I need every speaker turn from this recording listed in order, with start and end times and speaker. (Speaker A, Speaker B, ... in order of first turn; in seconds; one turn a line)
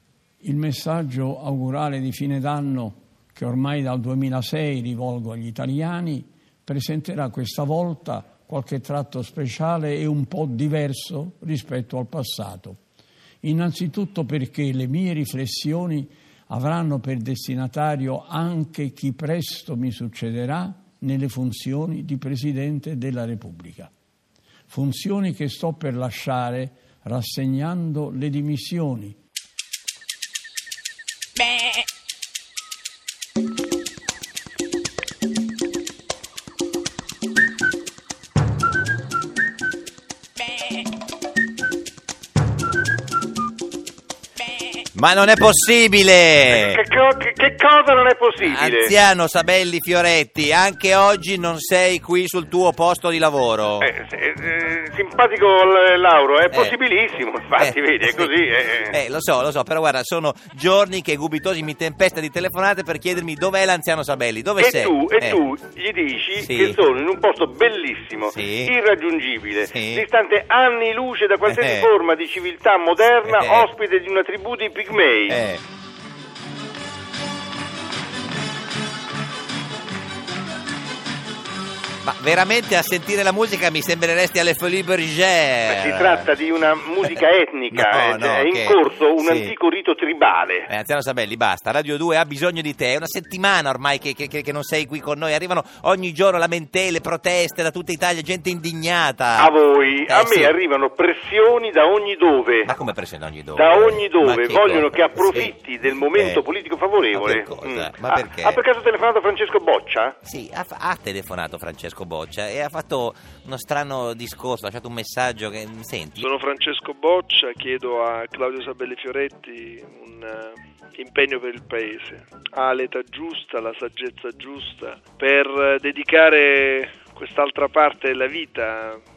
Speaker A: 0.4-12.8
Speaker A: 13.4-23.9
Speaker A: 24.7-29.2
Speaker B: 44.9-46.8
Speaker C: 46.5-48.9
Speaker B: 48.4-53.9
Speaker C: 53.8-58.9
Speaker B: 56.5-56.8
Speaker B: 57.6-65.4
Speaker C: 64.6-75.4
Speaker B: 66.4-66.8
Speaker B: 68.3-68.8
Speaker B: 69.6-70.0
Speaker B: 71.5-71.9
Speaker B: 73.2-73.7
Speaker B: 75.3-75.6
Speaker B: 82.0-86.3
Speaker C: 85.6-90.7
Speaker B: 87.7-89.5
Speaker B: 90.7-99.5
Speaker C: 99.4-102.7
Speaker B: 100.0-100.6
Speaker B: 102.6-105.5
Speaker C: 103.5-110.1
Speaker B: 106.1-106.4
Speaker B: 107.1-108.6
Speaker B: 110.2-116.3
Speaker D: 116.2-129.0